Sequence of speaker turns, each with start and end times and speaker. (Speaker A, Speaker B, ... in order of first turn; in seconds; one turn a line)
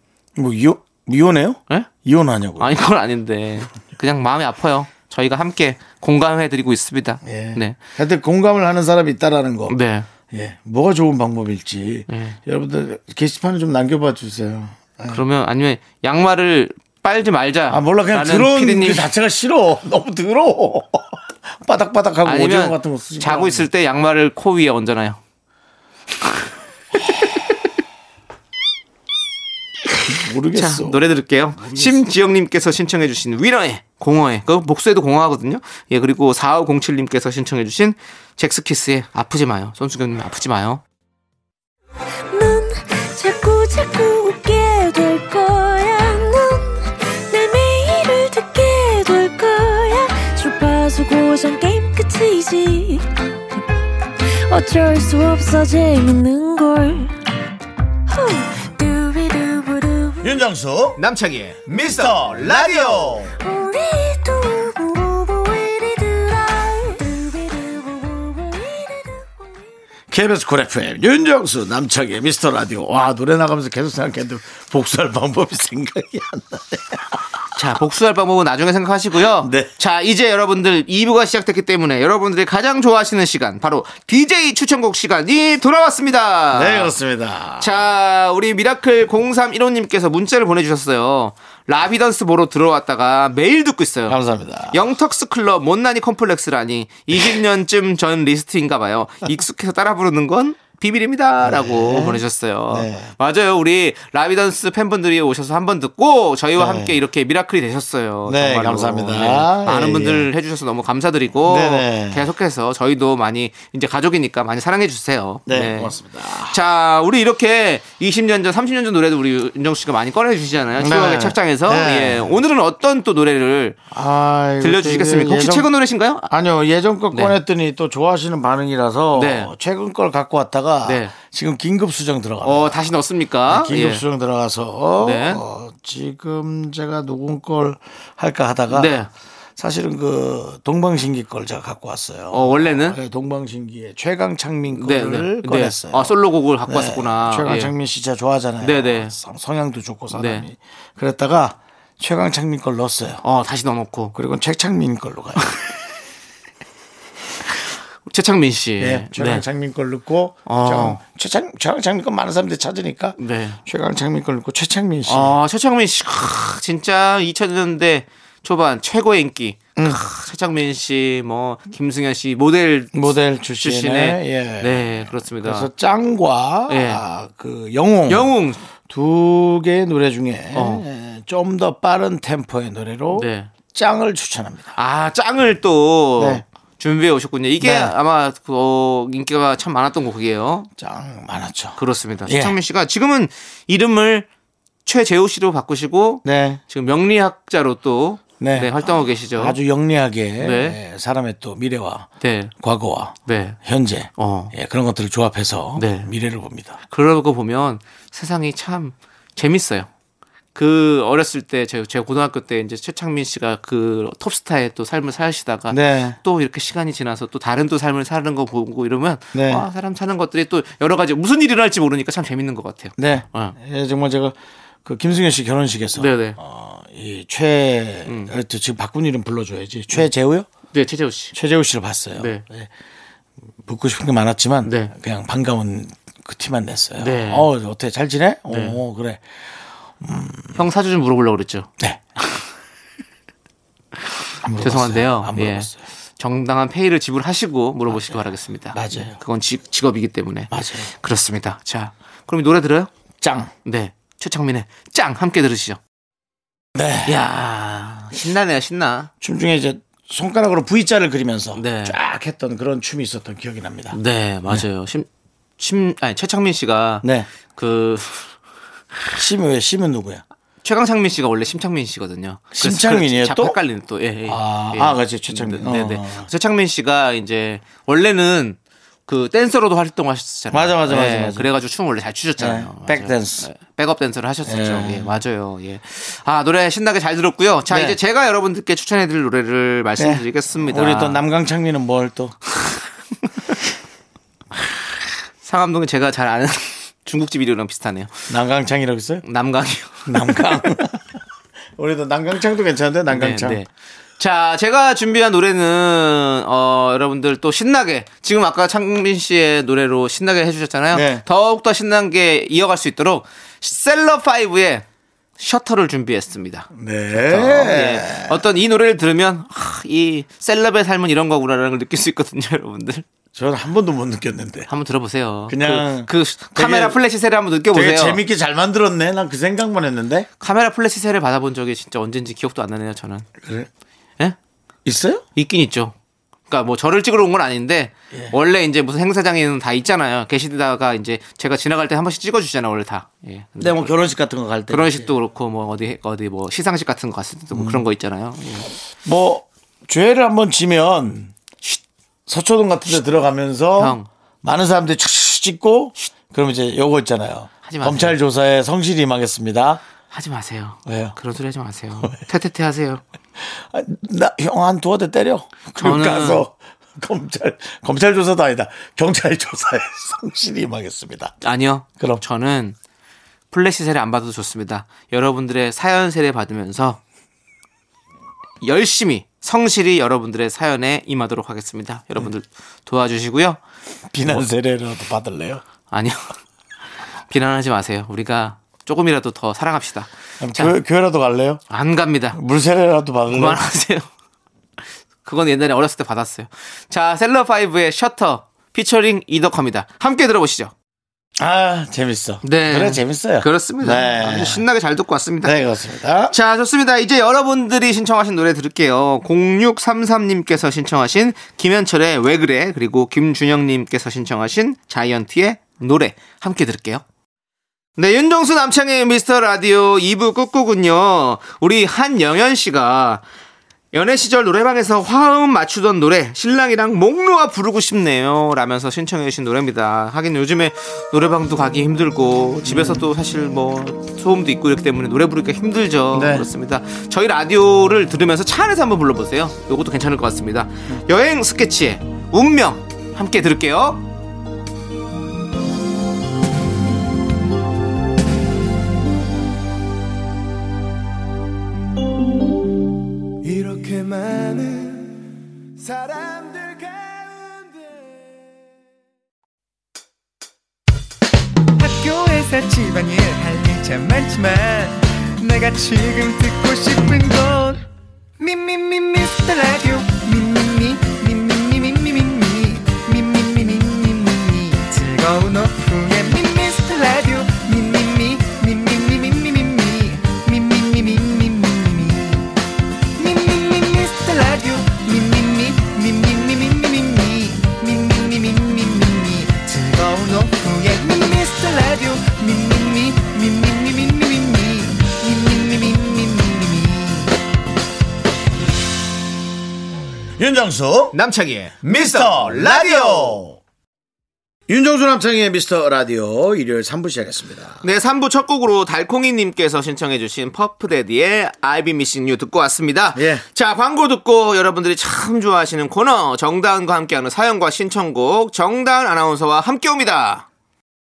Speaker A: 0.4-2.7
Speaker B: 2.6-7.8
Speaker A: 7.2-9.8
Speaker B: 9.7-10.1
Speaker A: 10.3-15.2
Speaker B: 12.1-12.4
Speaker B: 15.1-19.1
Speaker A: 17.7-23.7
Speaker B: 22.2-25.2
Speaker A: 30.1-31.0
Speaker B: 30.5-40.8
Speaker A: 31.6-32.0
Speaker C: 42.3-53.6
Speaker C: 54.5-57.1
Speaker C: 58.1-60.4
Speaker A: 60.2-61.0
Speaker B: 61.0-63.2
Speaker A: 61.7-63.4
Speaker C: 63.4-69.6
Speaker A: 70.1-77.2
Speaker B: 77.5-86.9
Speaker A: 79.2-79.7
Speaker A: 86.5-87.9
Speaker B: 87.6-94.2
Speaker A: 94.1-94.8
Speaker B: 94.7-123.8
Speaker A: 101.4-103.1
Speaker A: 106.6-107.0
Speaker A: 108.3-110.3
Speaker A: 111.5-112.3
Speaker A: 115.5-116.6
Speaker A: 120.8-122.3
Speaker A: 123.9-125.7
Speaker B: 124.6-126.3
Speaker A: 126.3-132.9
Speaker B: 127.1-127.4
Speaker B: 129.2-129.5
Speaker B: 130.8-131.1
Speaker B: 132.4-134.0
Speaker A: 133.5-139.0
Speaker B: 135.0-135.4
Speaker B: 138.7-139.1
Speaker A: 139.6-153.2
Speaker B: 142.3-143.0
Speaker B: 144.8-147.7
Speaker B: 148.6-149.2
Speaker B: 150.1-150.5
Speaker B: 153.2-154.2
Speaker A: 154.1-155.7
Speaker B: 158.1-159.4
Speaker A: 158.8-165.4
Speaker B: 160.5-161.0
Speaker B: 163.2-163.6
Speaker B: 165.1-175.7
Speaker A: 169.8-170.0
Speaker A: 172.9-178.3
Speaker B: 176.7-177.0
Speaker B: 178.1-178.6
Speaker A: 178.9-184.8
Speaker B: 180.5-180.9
Speaker B: 183.1-183.5
Speaker B: 184.8-190.7
Speaker A: 186.2-186.4
Speaker A: 187.6-187.9
Speaker A: 190.8-192.6
Speaker B: 191.8-194.3
Speaker B: 194.9-199.6
Speaker A: 196.2-196.6
Speaker A: 198.4-206.8
Speaker B: 200.4-200.8
Speaker B: 202.2-202.5
Speaker B: 203.3-203.6
Speaker B: 204.2-204.5
Speaker B: 205.8-206.1
Speaker B: 206.9-209.9
Speaker B: 210.6-223.6
Speaker A: 215.7-216.2
Speaker A: 219.3-219.7
Speaker A: 223.0-230.5
Speaker B: 226.0-226.4
Speaker B: 228.1-228.3
Speaker B: 230.7-231.3
Speaker A: 231.3-232.7
Speaker B: 232.2-232.4
Speaker A: 233.7-239.3
Speaker B: 234.6-234.9
Speaker B: 237.0-237.5
Speaker B: 238.5-238.8
Speaker A: 240.0-240.6
Speaker B: 240.6-241.7
Speaker A: 241.8-242.1
Speaker A: 244.4-245.8
Speaker B: 244.6-252.9
Speaker A: 247.9-249.2
Speaker A: 250.5-250.9
Speaker A: 253.2-253.5
Speaker B: 253.7-255.8
Speaker A: 256.8-257.2
Speaker B: 257.1-259.1
Speaker A: 259.2-264.6
Speaker B: 261.6-262.0
Speaker B: 263.9-265.1
Speaker B: 265.6-268.3
Speaker A: 267.0-267.3
Speaker A: 269.1-270.2
Speaker B: 270.6-291.2
Speaker A: 272.5-273.6
Speaker A: 274.3-276.3
Speaker A: 280.5-281.5
Speaker A: 282.4-283.5
Speaker A: 284.5-285.1
Speaker A: 287.7-288.0
Speaker A: 290.0-292.4
Speaker B: 295.4-298.2
Speaker A: 298.3-299.2
Speaker B: 299.2-300.7
Speaker A: 300.1-301.2
Speaker A: 301.8-303.6
Speaker B: 303.1-314.9
Speaker A: 310.9-311.2
Speaker B: 315.4-323.1
Speaker A: 316.7-318.4
Speaker A: 323.3-324.7
Speaker B: 324.7-328.2
Speaker A: 325.5-327.0
Speaker A: 327.7-330.3
Speaker B: 330.4-333.3
Speaker A: 333.4-333.7
Speaker A: 334.9-335.2
Speaker B: 335.4-335.9
Speaker B: 336.5-343.9
Speaker A: 343.6-345.1
Speaker B: 344.7-348.7
Speaker A: 347.5-347.8
Speaker A: 349.0-351.4
Speaker A: 352.3-359.8
Speaker B: 353.8-354.1
Speaker B: 357.6-358.2
Speaker B: 360.1-363.0
Speaker A: 360.9-361.1
Speaker A: 363.4-371.4
Speaker B: 365.8-366.4
Speaker B: 371.4-372.8
Speaker B: 373.5-377.0
Speaker B: 378.6-383.6
Speaker A: 384.1-385.6
Speaker B: 385.9-386.3
Speaker B: 387.3-390.8
Speaker A: 390.4-391.6
Speaker B: 391.7-392.4
Speaker A: 392.3-393.6
Speaker B: 393.3-394.1
Speaker B: 395.2-400.7
Speaker A: 401.4-404.6
Speaker B: 402.4-405.6
Speaker A: 405.4-406.4
Speaker B: 406.3-417.0
Speaker B: 418.0-423.2
Speaker B: 423.9-444.0
Speaker A: 432.7-433.0
Speaker A: 436.1-436.5
Speaker D: 453.4-455.1
Speaker D: 455.8-458.0
Speaker D: 461.8-467.8
Speaker D: 468.4-482.5
Speaker D: 483.2-497.3
Speaker A: 500.4-501.2
Speaker B: 501.1-503.4
Speaker A: 501.8-503.6
Speaker A: 504.7-507.8
Speaker B: 507.8-520.5
Speaker A: 513.1-513.4